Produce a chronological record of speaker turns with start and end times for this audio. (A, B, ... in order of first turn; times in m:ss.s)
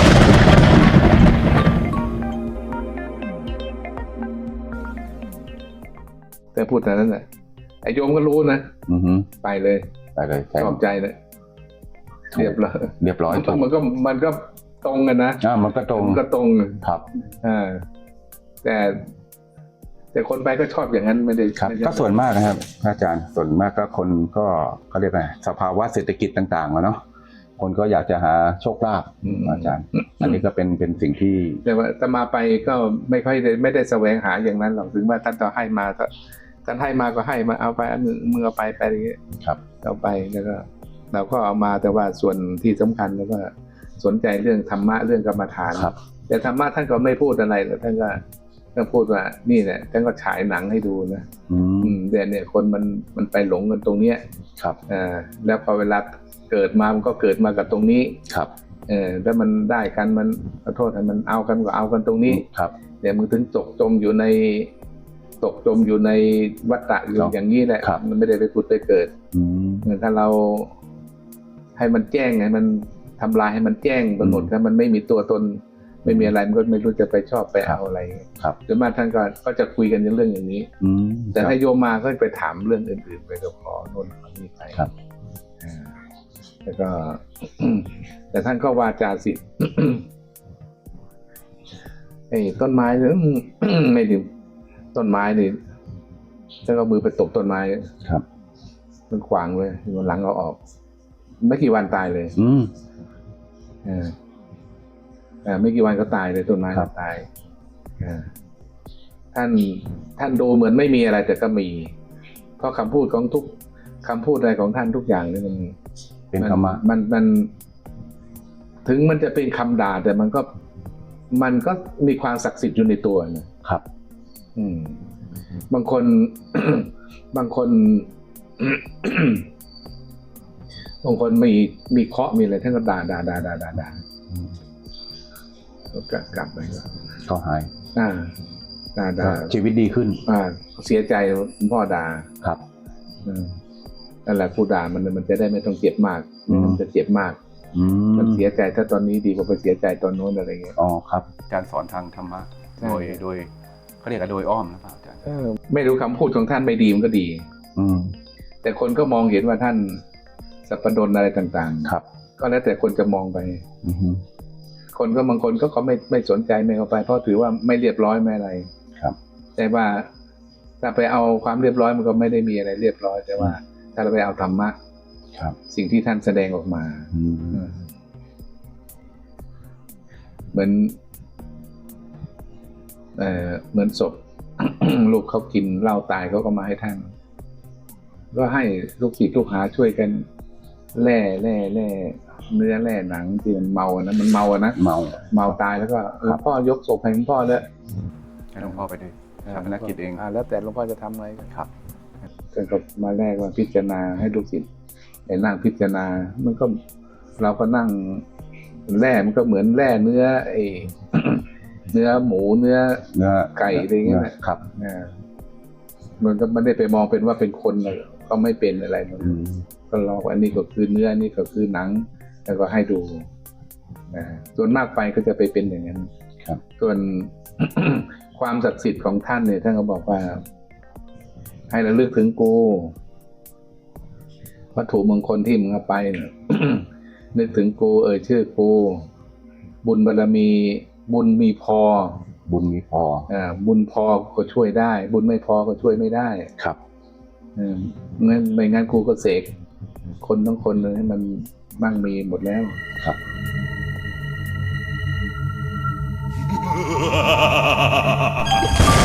0:00.6-0:01.1 A
0:06.5-0:07.2 B
0:07.8-0:08.8 B
0:08.9-0:09.3 A
0:09.4-0:09.9 B
0:10.2-0:10.8 A
0:10.6-0:11.2 B
0:12.3-0:13.7 A
0:12.3-0:16.8 B
0:15.4-0:16.2 A
0:17.4-0:17.8 B
0:18.6-0:19.1 B
0:20.1-0:22.1 B
0:21.6-0:27.0 A
0:27.6-0:31.6 A
0:29.2-0:30.3 B
0:31.6-0:36.1 B
0:36.6-0:39.2 B
0:39.8-0:48.2 B
0:48.8-0:51.3 B
0:51.5-0:52.0 A
0:51.8-0:54.2 B
0:54.9-0:58.2 B
0:58.3-0:58.5 A
0:58.9-1:02.4 B
1:02.3-1:02.8 A
1:03.0-1:04.7 B
1:05.4-1:09.1 B
1:07.2-1:08.0 A
1:09.3-1:09.9 A
1:09.8-1:10.7 B
1:11.8-1:20.7 B
1:14.2-1:14.5 A
1:16.0-1:16.3 A
1:20.8-1:21.6 A
1:21.3-1:24.8 B
1:25.6-1:25.9 B
1:26.6-1:30.1 B
1:32.3-1:34.3 B
1:34.9-1:35.6 B
1:36.6-1:37.9 B
1:39.1-1:40.6 B
1:41.4-1:42.4 B
1:42.4-1:42.7 A
1:43.8-1:44.2 B
1:45.4-1:47.3 B
1:48.0-1:48.3 B
1:49.3-1:51.9 B
1:52.6-1:55.8 B
1:56.3-1:56.8 A
1:56.4-1:57.5 B
1:58.8-2:00.5 B
2:01.3-2:03.5 B
2:04.6-2:05.0 B
2:05.7-2:09.5 B
2:11.0-2:14.0 B
2:15.9-2:16.9 B
2:17.3-2:17.7 A
2:18.0-2:18.4 B
2:19.0-2:19.5 B
2:19.2-2:20.2 A
2:20.2-2:22.3 B
2:23.2-2:23.6 B
2:24.3-2:27.4 B
2:26.5-2:26.8 A
2:27.7-2:28.5 A
2:28.1-2:30.8 B
2:30.8-2:33.5 A
2:32.8-2:33.2 B
2:34.0-2:35.2 A
2:35.3-2:37.5 B
2:37.8-2:38.2 A
2:38.6-2:40.0 B
2:40.7-2:43.6 B
2:43.8-2:44.2 A
2:45.0-2:48.7 B
2:49.6-2:50.1 B
2:50.8-2:54.8 B
2:55.7-2:57.8 B
2:57.1-2:57.7 A
3:00.5-3:01.0 B
3:03.2-3:07.1 B
3:08.3-3:10.3 B
3:10.9-3:17.7 B
3:14.8-3:15.6 A
3:18.5-3:20.2 A
3:19.5-3:21.5 B
3:22.5-3:24.7 B
3:25.3-3:26.8 B
3:27.4-3:28.2 B
3:28.9-3:35.1 B
3:33.1-3:34.6 A
3:36.2-3:39.4 B
3:39.2-3:39.6 A
3:39.9-3:43.3 B
3:44.1-3:46.1 B
3:46.8-3:50.4 B
3:51.7-3:53.0 B
3:54.8-3:59.1 B
3:59.8-4:02.2 B
4:02.5-4:03.3 A
4:03.3-4:06.5 B
4:07.6-4:09.5 B
4:10.2-4:12.8 B